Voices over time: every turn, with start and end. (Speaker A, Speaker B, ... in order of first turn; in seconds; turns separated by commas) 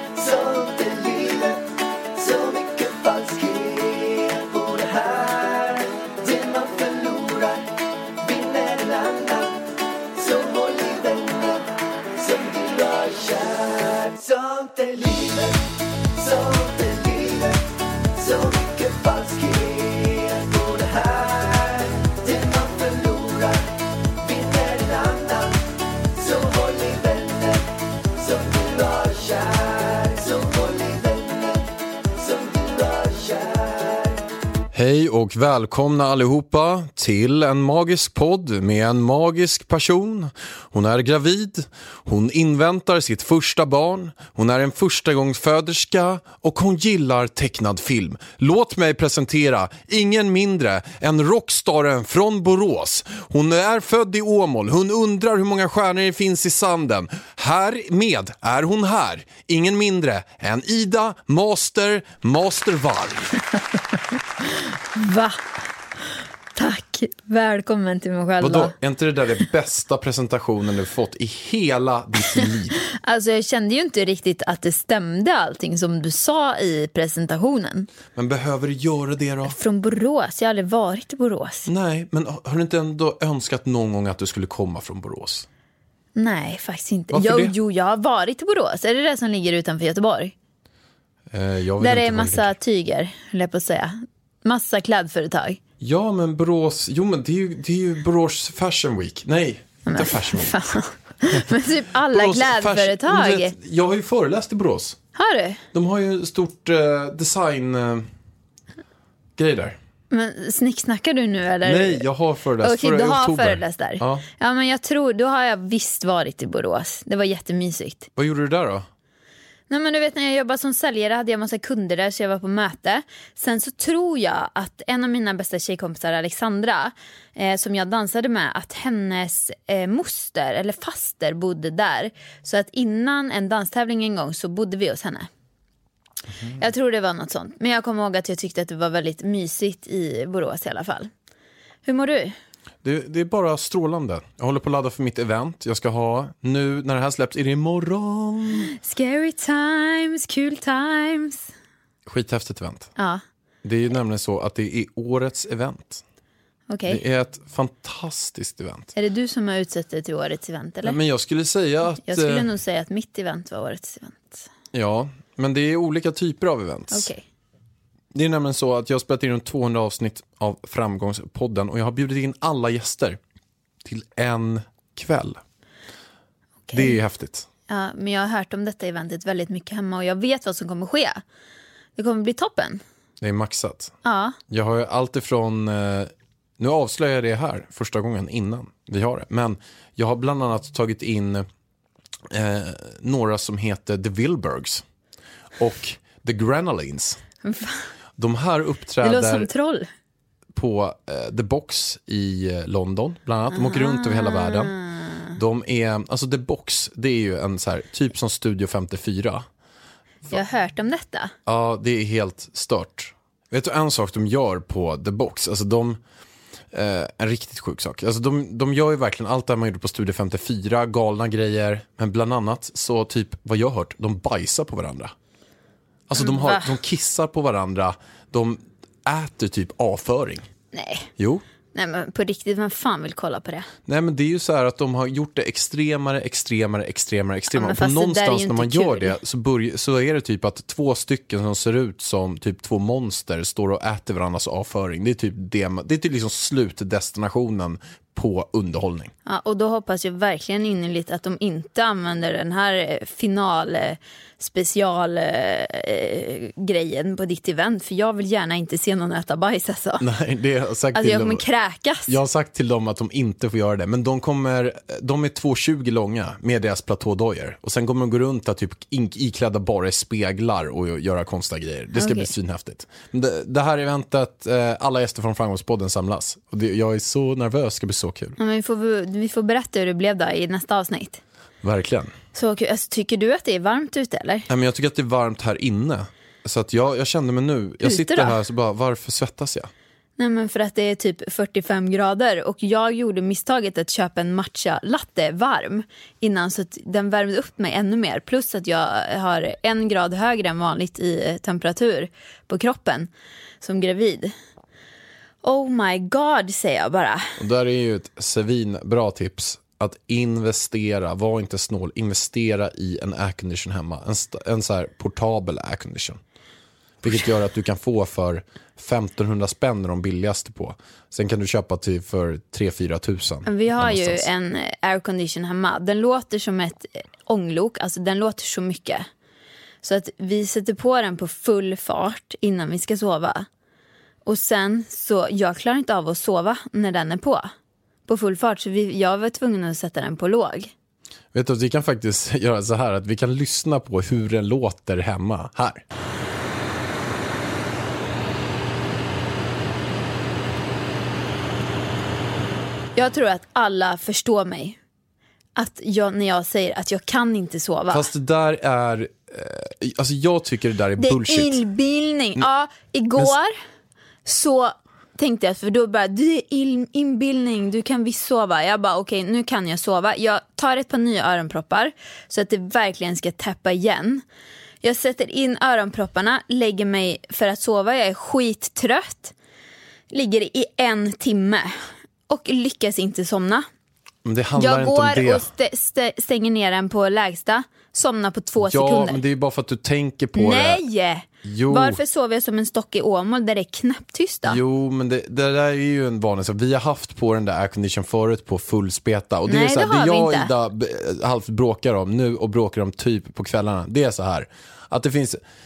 Speaker A: 0.1-1.6, Speaker A: 2.2-7.7, Speaker A: 8.2-9.5, Speaker A: 10.1-15.6, Speaker A: 16.1-17.6, Speaker A: 18.1-23.6, Speaker A: 24.2-25.5, Speaker A: 26.1-27.6, Speaker A: 28.2-34.2, Speaker B: 34.7-63.4, Speaker C: 64.9-65.4, Speaker C: 66.5-68.7, Speaker B: 68.4-72.8, Speaker C: 72.3-77.9, Speaker B: 78.2-79.5, Speaker C: 79.4-81.7, Speaker B: 81.7-85.5, Speaker C: 86.2-90.3, Speaker B: 87.1-87.5, Speaker B: 91.3-92.5, Speaker C: 91.8-95.6, Speaker B: 95.8-100.6, Speaker C: 99.9-103.5, Speaker B: 102.1-105.0, Speaker C: 105.1-105.6, Speaker B: 105.7-108.1, Speaker B: 109.4-109.8, Speaker C: 110.1-112.0, Speaker B: 111.6-114.2, Speaker C: 112.6-118.1, Speaker B: 118.2-118.9, Speaker C: 119.7-135.3, Speaker C: 136.5-141.1, Speaker C: 141.8-142.3, Speaker B: 142.8-148.7, Speaker C: 148.8-151.5, Speaker B: 152.1-152.9, Speaker C: 153.0-153.2, Speaker B: 153.6-156.0, Speaker C: 156.7-157.0, Speaker B: 156.9-158.9, Speaker C: 158.9-161.0, Speaker B: 160.8-162.5, Speaker C: 162.0-164.4, Speaker B: 164.7-167.1, Speaker C: 166.9-167.2, Speaker B: 168.1-173.2, Speaker B: 173.8-175.4, Speaker C: 176.7-177.0, Speaker B: 176.7-177.5, Speaker C: 177.7-181.2, Speaker C: 181.9-182.8, Speaker B: 183.2-183.9, Speaker C: 184.0-184.4, Speaker B: 184.5-191.4, Speaker B: 192.3-194.8, Speaker B: 195.6-197.2, Speaker C: 197.4-197.9, Speaker B: 198.2-199.5, Speaker C: 199.0-199.9, Speaker B: 200.5-204.7, Speaker C: 203.5-205.3, Speaker B: 205.3-209.4, Speaker C: 210.3-211.3, Speaker B: 211.4-216.0, Speaker B: 216.7-225.1, Speaker B: 226.1-230.5, Speaker C: 226.2-226.7, Speaker C: 230.7-231.1, Speaker B: 231.2-231.4, Speaker C: 231.7-233.7, Speaker B: 233.9-249.1, Speaker C: 237.5-239.2, Speaker C: 249.2-260.0, Speaker B: 260.0-261.4, Speaker C: 260.9-262.1, Speaker B: 262.1-278.4, Speaker C: 271.9-272.3, Speaker C: 278.4-281.2, Speaker B: 281.6-282.1, Speaker C: 282.3-284.5, Speaker B: 284.5-289.7, Speaker C: 287.8-288.4, Speaker C: 290.2-303.1, Speaker C: 303.6-304.3, Speaker C: 305.4-307.4, Speaker B: 307.4-316.2, Speaker B: 317.0-324.3, Speaker C: 323.4-329.1, Speaker C: 329.8-333.5, Speaker C: 334.2-337.5, Speaker C: 338.1-340.7, Speaker B: 341.3-345.8, Speaker C: 352.9-354.8, Speaker C: 355.6-358.1, Speaker B: 357.9-361.6, Speaker C: 361.0-363.5, Speaker C: 364.2-374.2, Speaker C: 374.8-379.3, Speaker C: 380.1-381.7, Speaker C: 382.3-383.7, Speaker B: 384.2-385.5, Speaker C: 384.6-389.2, Speaker B: 388.6-390.8, Speaker C: 390.3-394.6, Speaker B: 391.4-392.0, Speaker B: 394.4-405.4, Speaker C: 399.5-400.5